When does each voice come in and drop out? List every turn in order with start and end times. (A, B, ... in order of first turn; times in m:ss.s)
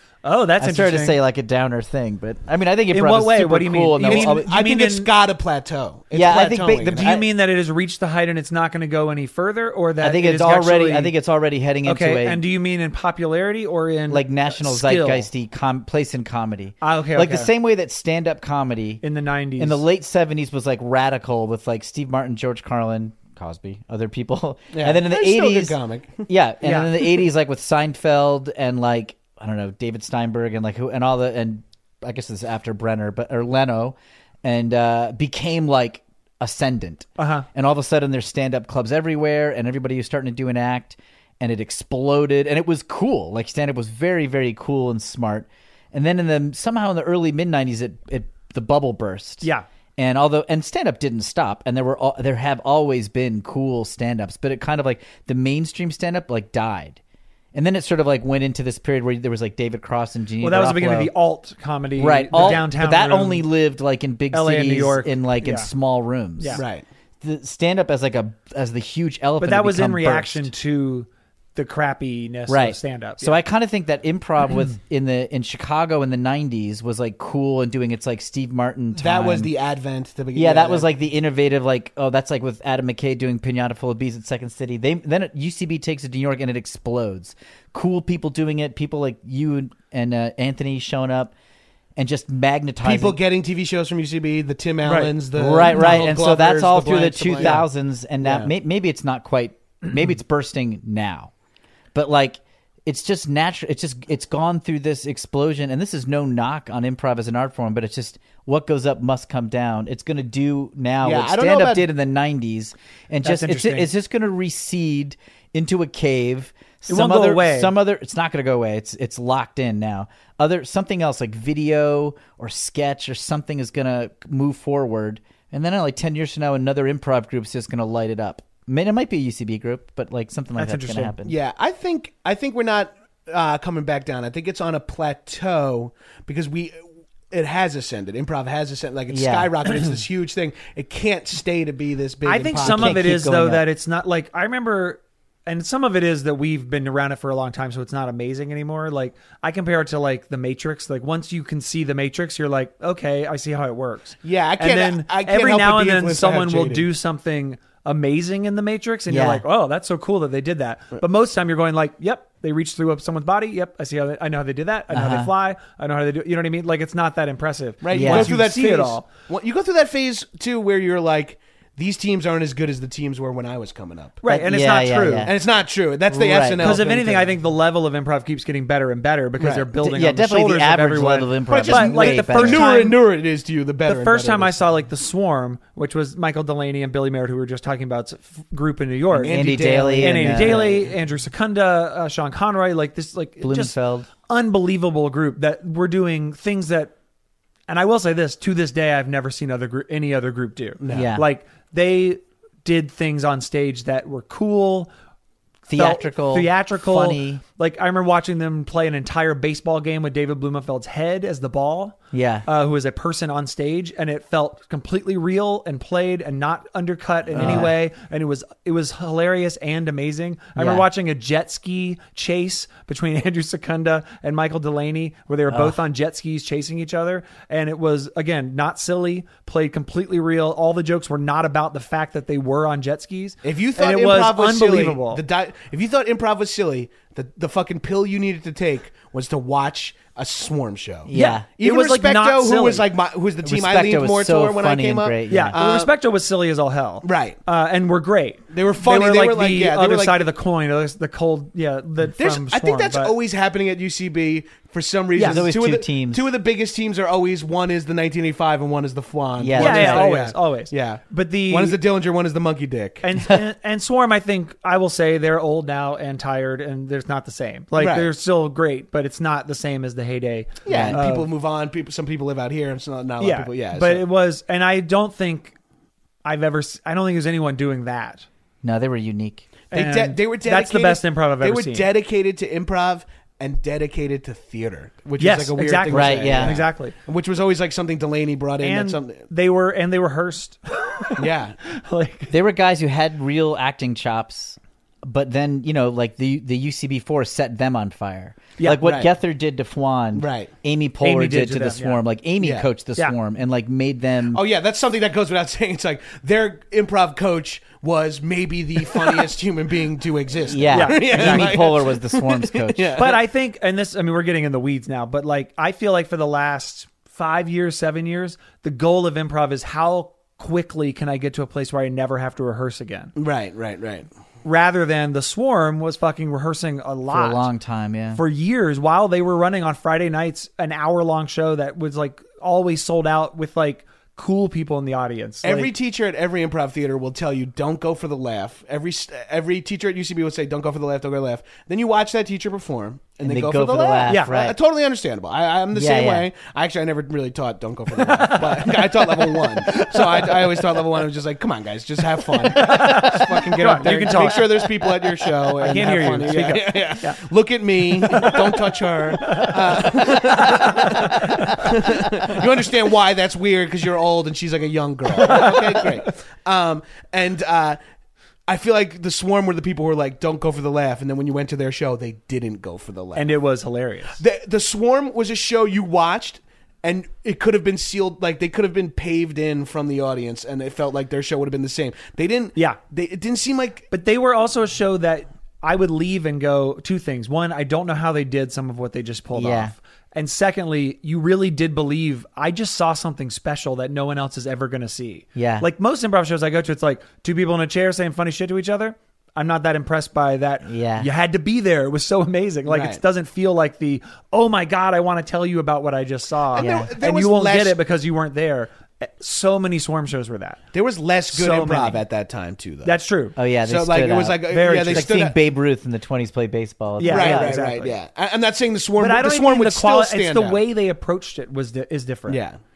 0:00.2-0:01.2 A
0:00.6-0:04.5 B
0:02.9-0:05.1 A
0:04.0-0:07.1 C
0:06.1-0:07.3 B
0:06.3-0:11.1 A
0:10.0-0:12.4 B
0:11.8-0:15.3 A
0:14.1-0:19.0 B
0:16.8-0:17.5 A
0:19.0-0:19.8 A
0:19.6-0:57.0 B
0:24.7-0:26.3 C
0:26.6-0:26.9 A
0:37.2-0:37.5 A
0:57.5-1:01.1 B
1:00.4-1:03.4 A
1:02.0-1:06.6 B
1:04.3-1:05.7 A
1:06.6-1:06.9 C
1:07.2-1:10.5 B
1:09.4-1:13.4 A
1:12.5-1:19.5 B
1:19.0-1:20.9 C
1:20.4-1:31.3 B
1:32.0-1:33.2 B
1:32.8-1:37.6 C
1:34.8-1:36.1 A
1:35.4-1:41.3 B
1:37.4-1:37.7 A
1:38.2-1:38.5 C
1:41.9-2:11.4 B
1:51.0-1:51.9 C
1:53.2-1:53.9 A
1:56.9-1:57.7 A
2:10.6-2:11.1 A
2:11.2-2:16.8 C
2:17.3-2:23.0 C
2:19.1-2:19.5 B
2:22.3-2:49.1 A
2:22.6-2:23.6 B
2:34.2-2:36.9 C
2:39.1-2:39.4 B
2:44.9-2:45.3 B
2:47.8-2:54.2 C
2:47.9-2:48.3 B
2:54.2-2:55.3 A
2:54.3-2:55.3 B
2:55.2-2:57.4 C
2:56.1-2:56.8 B
2:56.6-3:03.0 A
2:59.4-2:59.7 C
2:59.8-3:02.7 B
3:01.5-3:04.7 C
3:03.9-3:16.9 A
3:09.2-3:10.9 C
3:09.2-3:10.8 B
3:13.4-3:14.1 B
3:17.7-3:24.9 A
3:20.8-3:21.1 C
3:20.9-3:21.3 B
3:25.7-3:27.4 B
3:25.7-3:55.2 A
3:32.1-3:32.5 B
3:37.4-3:37.8 B
3:40.6-3:40.9 B
3:45.5-3:45.8 B
3:53.4-4:05.9 C
4:01.1-4:01.5 B
4:01.1-4:02.9 A
4:03.4-4:05.6 B
4:05.3-4:13.2 A
4:07.0-4:07.4 C
4:08.5-4:10.3 C
4:12.1-4:23.1 C
4:15.2-4:15.4 A
4:15.2-4:16.2 B
4:19.4-4:20.1 B
4:19.6-4:21.8 A
4:23.0-4:31.3 A
4:27.8-4:28.1 C
4:30.6-4:34.0 C
4:30.7-4:31.0 B
4:33.2-4:35.6 A
4:36.2-4:38.3 A
4:38.6-4:39.5 B
4:39.7-4:41.9 A
4:39.7-4:49.2 C
4:45.2-4:47.0 A
4:45.9-4:46.6 B
4:48.6-4:52.3 A
4:51.2-4:51.6 C
4:52.3-5:04.4 B
4:58.6-4:58.8 A
4:58.8-4:59.1 C
5:00.2-5:00.5 C
5:01.0-5:02.0 A
5:02.4-5:02.7 C
5:04.3-5:13.2 C
5:10.5-5:13.0 B
5:10.7-5:11.7 A
5:13.0-5:23.1 A
5:23.2-5:24.1 C
5:24.4-5:27.5 A
5:27.1-5:28.2 B
5:28.1-5:35.7 A
5:35.4-6:07.8 C
5:43.2-5:44.6 B
5:44.1-5:44.4 A
5:45.7-5:46.3 B
5:48.0-5:50.4 A
5:52.4-5:54.9 A
5:55.6-5:57.2 A
5:57.9-6:01.7 A
6:05.2-6:05.9 A
6:08.5-6:13.3 C
6:13.2-6:14.2 A
6:14.2-6:23.9 C
6:23.9-6:50.6 A
6:29.3-6:29.7 B
6:35.4-6:35.7 B
6:40.6-6:41.1 B
6:42.7-6:43.0 C
6:46.5-6:47.8 C
6:46.6-6:46.9 B
6:50.7-6:53.0 C
6:51.3-6:52.0 A
6:52.8-6:53.4 A
6:53.4-6:57.6 B
6:53.6-6:55.4 C
6:54.5-6:55.2 A
6:57.0-6:58.0 A
6:57.0-7:00.6 C
6:59.0-7:02.4 A
7:02.3-7:02.6 C